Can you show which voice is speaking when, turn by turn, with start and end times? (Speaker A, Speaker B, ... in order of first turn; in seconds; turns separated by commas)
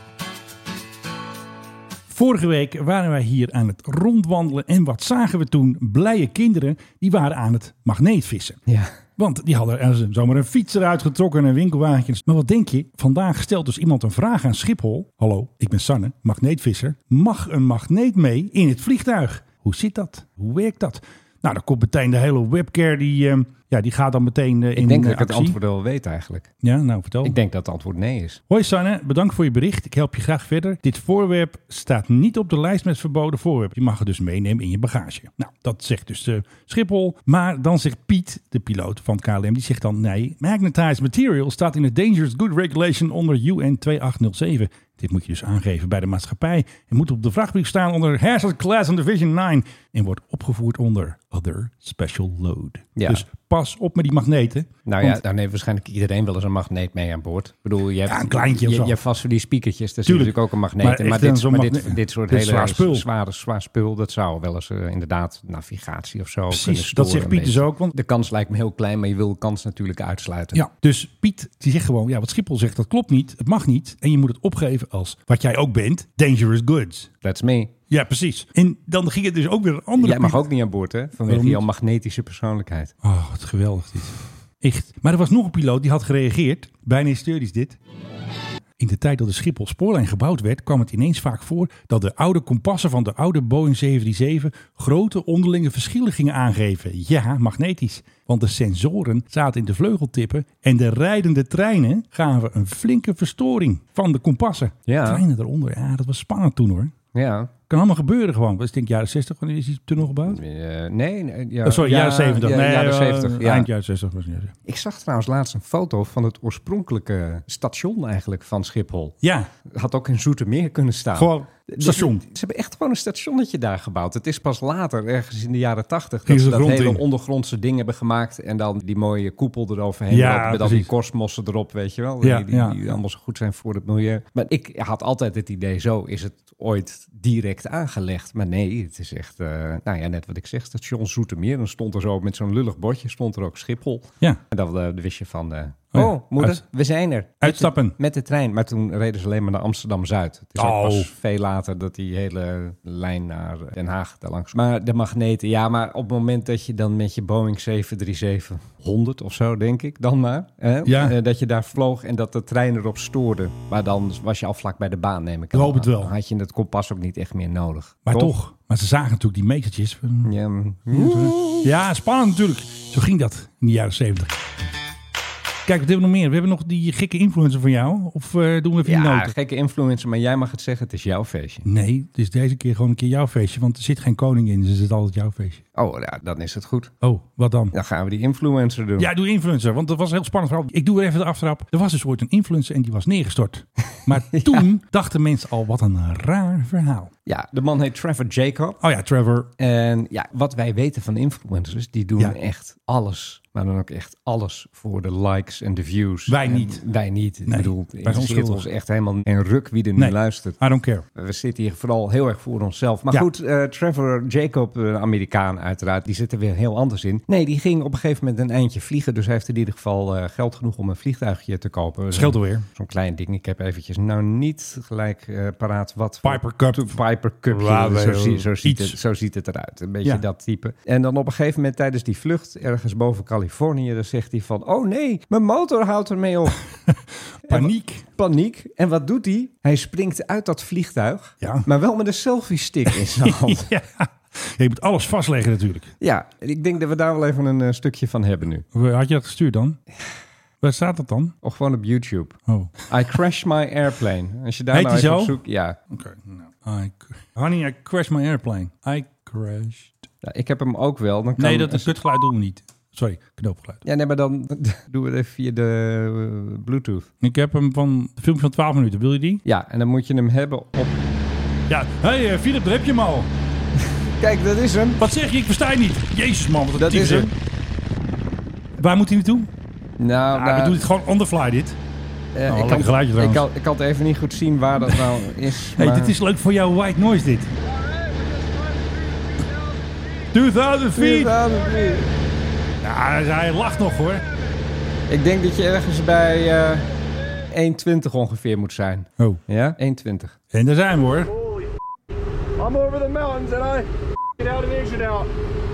Speaker A: 2.1-8.6, Speaker B: 8.7-8.9, Speaker A: 9.2-25.6, Speaker B: 24.7-26.5, Speaker A: 26.6-27.4, Speaker B: 27.2-28.4, Speaker A: 28.5-55.2, Speaker B: 53.0-53.2, Speaker B: 54.9-70.6, Speaker A: 58.0-59.0, Speaker A: 60.0-63.0, Speaker A: 66.5-67.9, Speaker A: 70.5-77.1, Speaker B: 77.2-77.7, Speaker A: 77.9-80.4, Speaker B: 80.0-82.9, Speaker A: 81.3-81.6, Speaker A: 83.0-87.8, Speaker A: 88.8-106.9, Speaker B: 104.9-105.2, Speaker B: 107.1-107.5, Speaker A: 107.7-110.4, Speaker B: 110.3-113.7, Speaker A: 111.6-114.5, Speaker B: 114.7-119.2, Speaker A: 119.2-119.5, Speaker B: 119.7-168.3, Speaker A: 121.1-122.2, Speaker A: 126.3-127.0, Speaker A: 130.1-130.9, Speaker A: 132.2-132.8, Speaker A: 145.9-146.6, Speaker A: 147.4-147.9, Speaker A: 150.6-151.1, Speaker A: 160.8-161.2, Speaker A: 165.5-166.1, Speaker A: 168.1-170.3, Speaker B: 170.2-171.7, Speaker A: 170.9-174.3, Speaker A: 175.7-179.3, Speaker B: 178.8-181.7, Speaker A: 181.6-185.6, Speaker B: 185.7-186.9, Speaker A: 187.0-187.7, Speaker B: 187.7-189.1, Speaker A: 189.0-197.1, Speaker B: 194.2-194.7, Speaker B: 197.2-198.8, Speaker A: 198.8-199.5, Speaker B: 199.6-210.6, Speaker A: 206.3-206.8, Speaker A: 207.5-208.6, Speaker A: 210.0-211.0, Speaker B: 211.1-236.6, Speaker A: 222.1-222.7, Speaker A: 226.2-227.0, Speaker A: 227.5-229.0, Speaker A: 236.9-238.0, Speaker B: 237.4-243.7, Speaker A: 241.4-241.7, Speaker A: 242.9-245.9, Speaker B: 246.0-248.6, Speaker A: 248.7-249.8, Speaker A: 250.6-251.3, Speaker B: 251.4-255.8, Speaker A: 252.5-252.8, Speaker A: 254.7-255.4, Speaker A: 255.9-259.9, Speaker B: 260.2-261.9, Speaker A: 261.4-263.8, Speaker B: 263.8-267.1, Speaker A: 267.2-269.4, Speaker B: 269.4-271.0, Speaker A: 271.7-273.3, Speaker B: 274.2-275.0, Speaker A: 275.0-277.3, Speaker B: 276.8-277.3, Speaker A: 278.8-279.5, Speaker B: 280.0-280.8, Speaker A: 280.3-281.8, Speaker B: 282.3-286.1, Speaker A: 282.5-283.4, Speaker A: 284.9-287.5, Speaker C: 287.8-290.2, Speaker A: 290.3-291.4, Speaker B: 290.9-292.1, Speaker C: 291.4-292.0, Speaker A: 292.8-294.2, Speaker B: 295.1-296.9, Speaker B: 297.5-300.4, Speaker A: 300.5-301.3, Speaker C: 301.2-301.7, Speaker C: 302.6-305.3